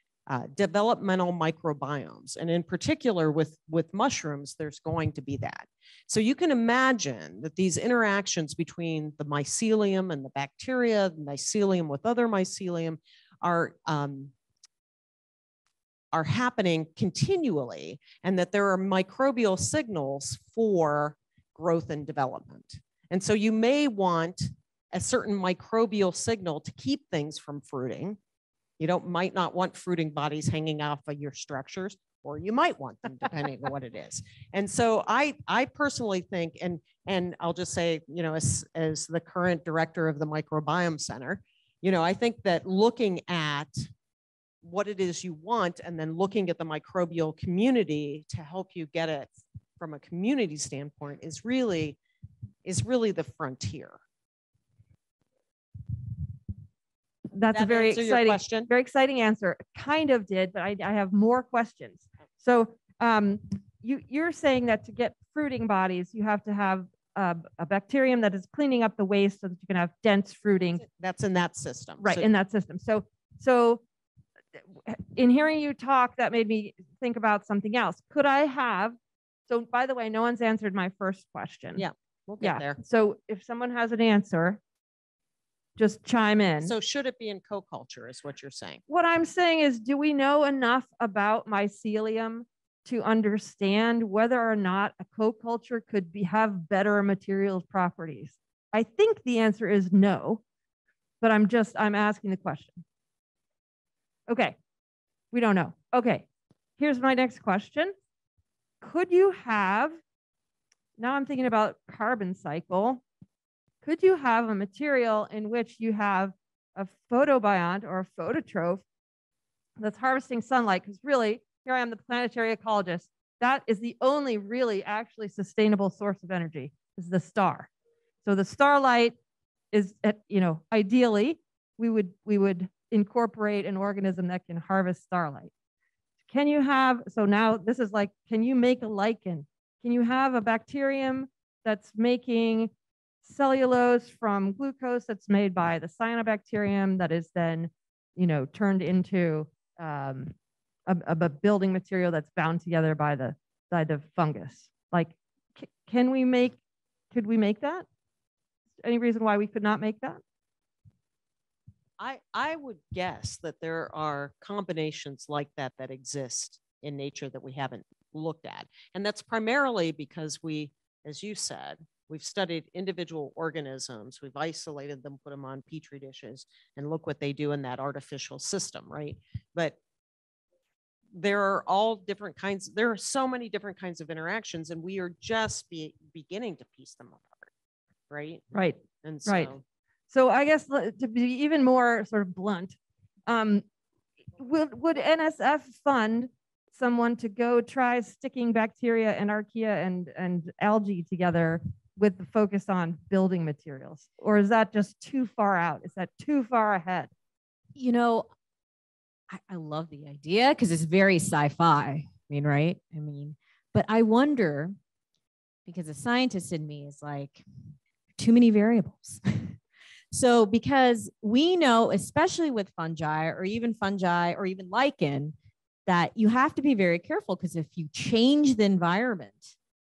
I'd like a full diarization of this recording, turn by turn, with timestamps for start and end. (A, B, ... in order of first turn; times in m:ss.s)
0:00.3-0:14.3 A
0:16.1-0:28.2 A
0:28.8-0:43.9 A
0:44.6-0:52.0 A
0:52.6-0:54.0 A
0:57.3-1:10.8 B
0:57.5-0:58.7 A
1:10.8-1:12.3 A
1:12.0-1:13.8 B
1:14.8-1:19.0 B
1:19.5-1:21.8 B
1:21.7-1:22.8 A
1:22.4-1:24.6 B
1:25.8-1:26.7 B
1:26.6-1:28.8 A
1:28.9-1:40.4 B
1:41.2-1:42.8 B
1:44.3-1:44.6 B
1:45.3-1:46.2 B
1:46.8-1:47.9 B
1:48.8-1:50.0 B
1:51.0-1:53.0 B
1:53.8-1:58.8 B
1:59.8-2:07.7 B
2:08.2-2:09.2 B
2:09.7-2:15.5 B
2:16.3-2:22.7 B
2:23.2-2:30.3 B
2:30.9-2:36.6 B
2:37.1-2:37.8 B
2:38.8-2:40.2 B
2:42.0-2:59.8 A
3:01.1-3:07.5 A
3:08.1-3:08.4 A
3:08.5-3:09.5 B
3:09.0-3:09.6 A
3:10.1-3:12.8 B
3:13.3-3:13.6 B
3:14.4-3:27.1 B
3:27.8-3:28.3 C
3:29.3-3:34.7 C
3:35.6-3:37.4 C
3:38.2-3:39.6 C
3:40.1-3:45.3 C
3:45.8-3:49.5 C